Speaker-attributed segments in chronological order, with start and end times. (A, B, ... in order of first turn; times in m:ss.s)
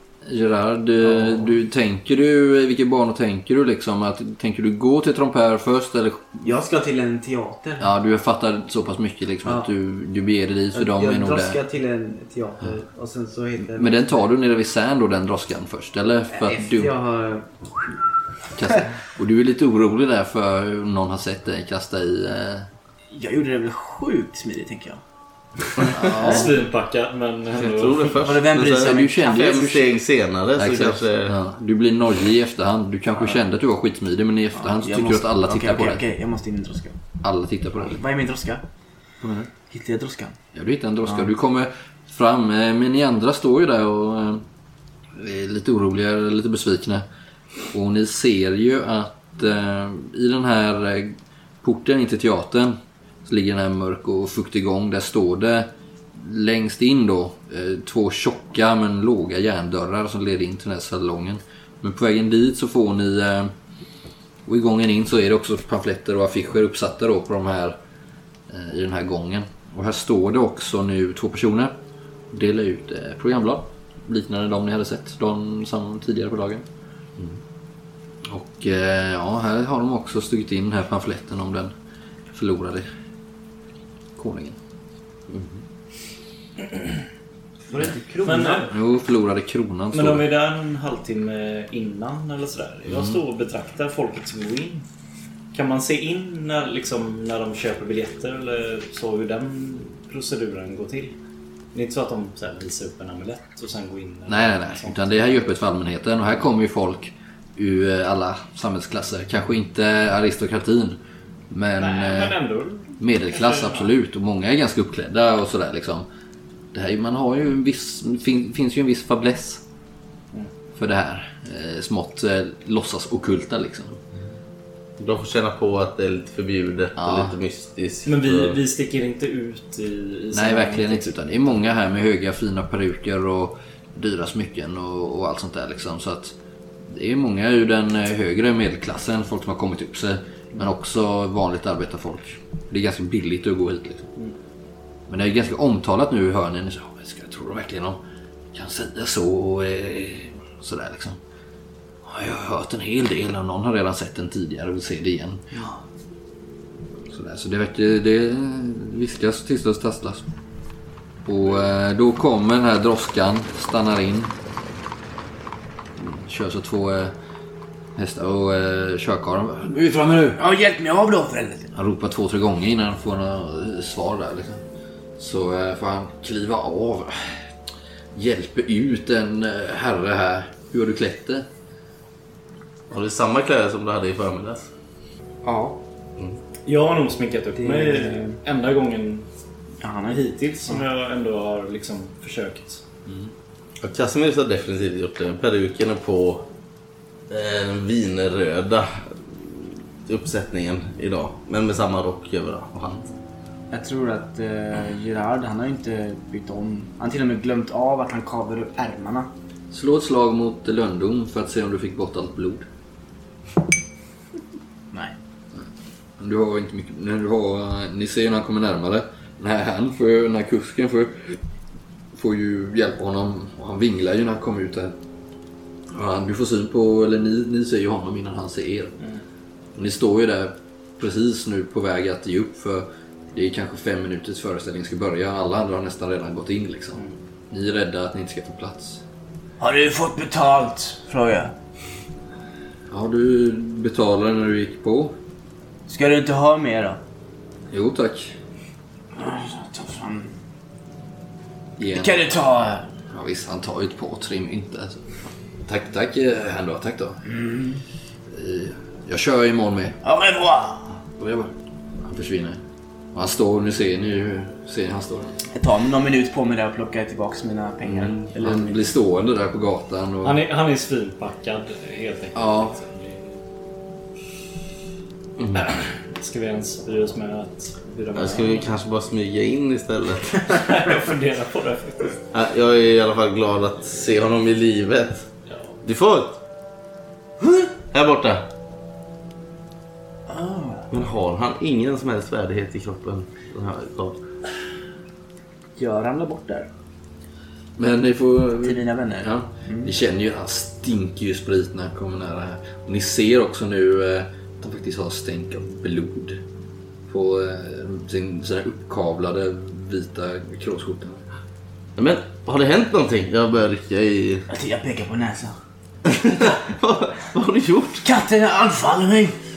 0:00.2-0:06.6 A
0:06.4-0:07.9 B
0:07.8-0:11.6 A
0:10.7-0:14.3 B
0:13.6-0:16.9 A
0:16.3-0:18.0 B
0:18.5-0:22.7 A
0:23.1-0:25.0 B
0:25.8-0:26.5 B
0:26.0-0:26.5 A
0:26.0-0:28.2 C
0:27.6-0:31.4 D
0:28.2-0:29.4 B
0:28.7-0:29.9 A
0:30.6-0:36.0 A
0:34.6-0:37.0 B
0:37.2-0:38.0 A
0:37.8-0:38.6 B
0:39.2-0:39.5 A
0:39.6-0:40.4 B
0:40.5-0:44.5 A
0:45.1-0:47.1 A
0:47.7-1:03.6 A
1:04.4-1:07.8 A
1:08.5-1:11.8 A
1:12.3-1:16.7 A
1:18.3-1:21.7 A
1:22.3-1:22.9 A
1:24.2-1:24.6 A
1:25.3-1:25.6 D
1:27.7-1:28.7 C
1:28.1-1:28.7 B
1:28.7-1:30.2 A
1:29.9-1:34.9 C
1:32.9-1:33.2 A
1:35.5-1:41.2 C
1:41.7-1:45.5 C
1:44.3-1:51.0 A
1:51.5-1:52.4 A
1:51.8-1:53.9 C
1:53.0-1:56.1 A
1:56.7-1:59.6 A
2:00.8-2:04.0 A
2:05.0-2:08.6 D
2:07.0-2:07.4 A
2:08.0-2:11.1 C
2:10.3-2:24.1 A
2:25.1-2:28.0 A
2:28.5-2:31.2 A
2:32.0-2:35.6 A
2:37.1-2:40.3 A
2:41.2-2:44.3 A
2:46.0-2:47.2 A
2:48.0-2:50.4 A
2:50.3-2:51.7 B
2:51.8-2:54.6 A
2:55.2-2:57.5 A
2:58.1-3:01.5 A
3:02.9-3:04.7 D
3:05.4-3:05.8 B
3:06.7-3:09.3 C
3:07.6-3:08.4 B
3:09.8-3:10.8 B
3:10.1-3:12.8 C
3:13.1-3:13.3 A
3:13.8-3:16.5 D
3:17.3-3:23.0 D
3:23.7-3:29.3 B
3:29.7-3:32.7 A
3:35.5-3:41.4 A
3:42.1-3:45.0 A
3:45.9-3:49.0 A
3:49.8-3:59.0 A
3:59.6-4:01.5 B
4:02.9-4:05.2 A
4:05.9-4:07.0 B
4:07.7-4:08.4 A
4:09.2-4:10.4 B
4:11.8-4:12.3 A
4:11.9-4:12.9 B
4:13.1-4:17.2 A
4:17.2-4:17.8 B
4:18.3-4:20.0 A
4:20.0-4:21.0 B
4:21.2-4:22.6 A
4:23.1-4:25.4 A
4:25.5-4:28.8 B
4:27.8-4:30.4 A
4:30.2-4:33.4 C
4:32.3-4:32.8 A
4:35.4-4:35.7 A
4:35.5-4:38.7 C
4:38.2-4:40.5 D
4:40.5-4:42.2 C
4:42.3-4:45.3 D
4:45.5-4:45.7 C
4:45.8-4:46.4 D
4:47.8-4:48.5 D
4:50.3-4:50.9 B
4:50.9-4:54.2 D
4:55.8-4:56.7 B
4:57.8-5:06.4 A
4:58.6-4:59.9 B
5:07.1-5:11.2 A
5:12.0-5:14.5 D
5:14.5-5:15.6 B
5:16.1-5:18.0 D
5:18.0-5:19.4 B